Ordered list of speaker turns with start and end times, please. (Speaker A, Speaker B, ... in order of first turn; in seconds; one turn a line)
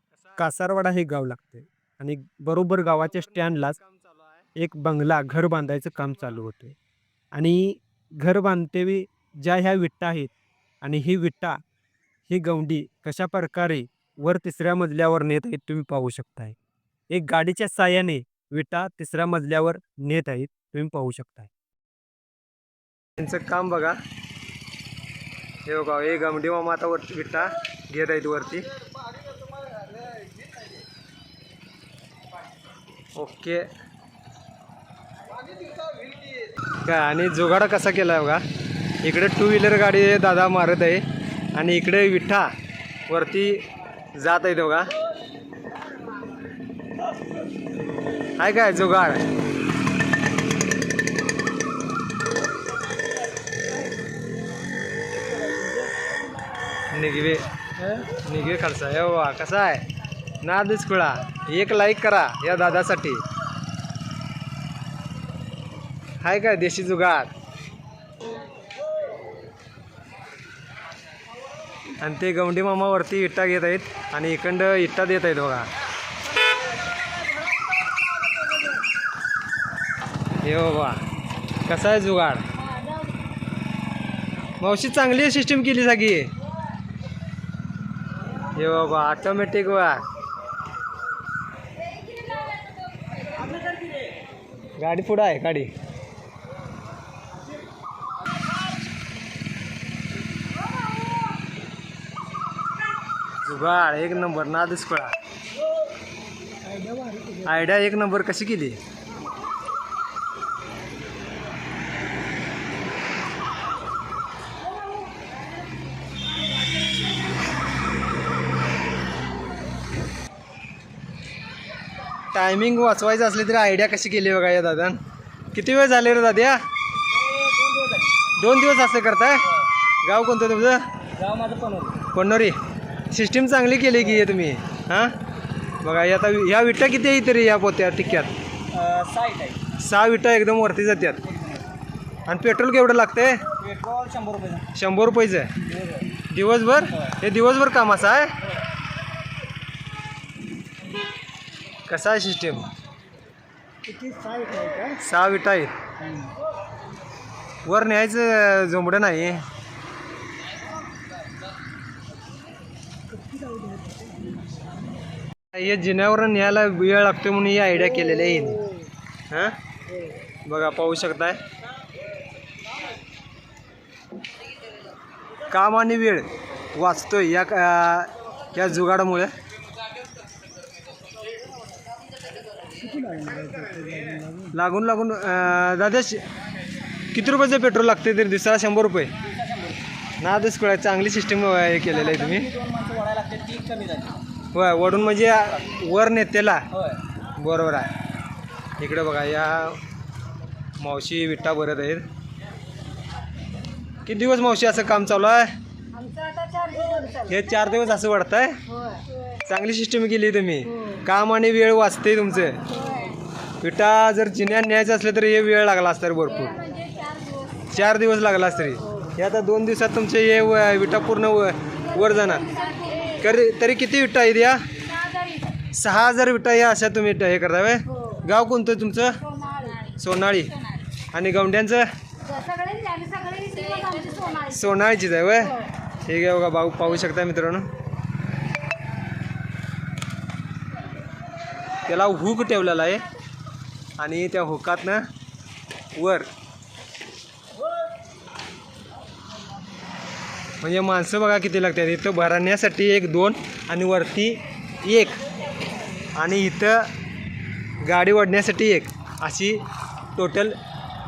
Speaker A: 0.4-3.8
Speaker A: 4.5-6.8
Speaker A: 7.3-10.3
Speaker A: 10.8-11.6
Speaker A: 12.3-16.6
Speaker A: 17.1-21.5
Speaker A: 23.2-24.0
Speaker A: 25.7-28.7
Speaker A: 33.2-33.7
Speaker A: 36.8-38.4
Speaker A: 39.0-41.0
Speaker A: 41.5-42.5
Speaker A: 43.1-43.6
Speaker A: 44.1-44.9
Speaker A: 48.4-49.2
Speaker B: 55.3-55.9
Speaker A: 56.9-57.5
Speaker A: 58.1-59.9
Speaker A: 60.4-63.2
Speaker A: 66.2-67.3
Speaker A: 72.0-75.7
Speaker A: 80.4-81.0
Speaker A: 81.7-82.4
Speaker A: 84.6-86.3
Speaker A: 88.5-90.0
Speaker A: 94.8-95.7
Speaker A: 103.4-105.1
Speaker B: 106.7-107.5
Speaker A: 107.4-108.8
Speaker A: 122.3-125.0
Speaker A: 125.5-126.6
Speaker B: 127.3-128.1
Speaker A: 128.3-129.5
Speaker A: 130.0-130.8
Speaker B: 131.2-132.0
Speaker A: 132.1-132.6
Speaker A: 133.1-135.2
Speaker A: 135.8-138.3
Speaker B: 138.7-139.7
Speaker A: 139.7-141.2
Speaker B: 141.3-141.6
Speaker A: 142.3-143.4
Speaker B: 143.6-144.7
Speaker A: 144.7-145.5
Speaker B: 145.6-146.1
Speaker A: 146.3-148.3
Speaker A: 151.9-152.7
Speaker B: 153.8-155.0
Speaker A: 155.0-155.7
Speaker B: 156.0-156.3
Speaker A: 157.7-159.4
Speaker B: 163.2-164.1
Speaker A: 165.5-168.7
Speaker A: 169.3-169.6
Speaker A: 170.5-171.4
Speaker A: 175.5-179.3
Speaker B: 182.7-184.5
Speaker A: 184.5-186.2
Speaker A: 187.1-189.1
Speaker B: 189.2-189.8
Speaker A: 190.2-192.5
Speaker B: 191.9-194.2
Speaker A: 194.5-196.6
Speaker B: 196.7-197.0
Speaker A: 197.3-197.9
Speaker A: 198.8-199.8
Speaker A: 200.8-202.1
Speaker A: 204.1-205.5
Speaker C: 205.9-207.3
Speaker A: 207.3-208.6
Speaker C: 208.7-209.3
Speaker A: 209.5-212.7
Speaker C: 212.7-213.2
Speaker A: 213.6-216.6
Speaker C: 216.4-217.7
Speaker A: 217.7-222.5
Speaker C: 222.0-223.2
Speaker A: 223.2-224.6
Speaker C: 224.9-225.5
Speaker A: 225.7-229.2
Speaker C: 227.9-228.2
Speaker C: 229.2-229.9
Speaker A: 229.9-230.5
Speaker A: 231.1-231.9
Speaker C: 232.2-234.5
Speaker A: 234.5-237.7
Speaker A: 241.9-243.0
Speaker A: 244.0-245.0
Speaker A: 245.9-246.3
Speaker A: 250.6-255.2
Speaker A: 256.2-256.9
Speaker A: 257.8-259.6
Speaker A: 260.1-260.6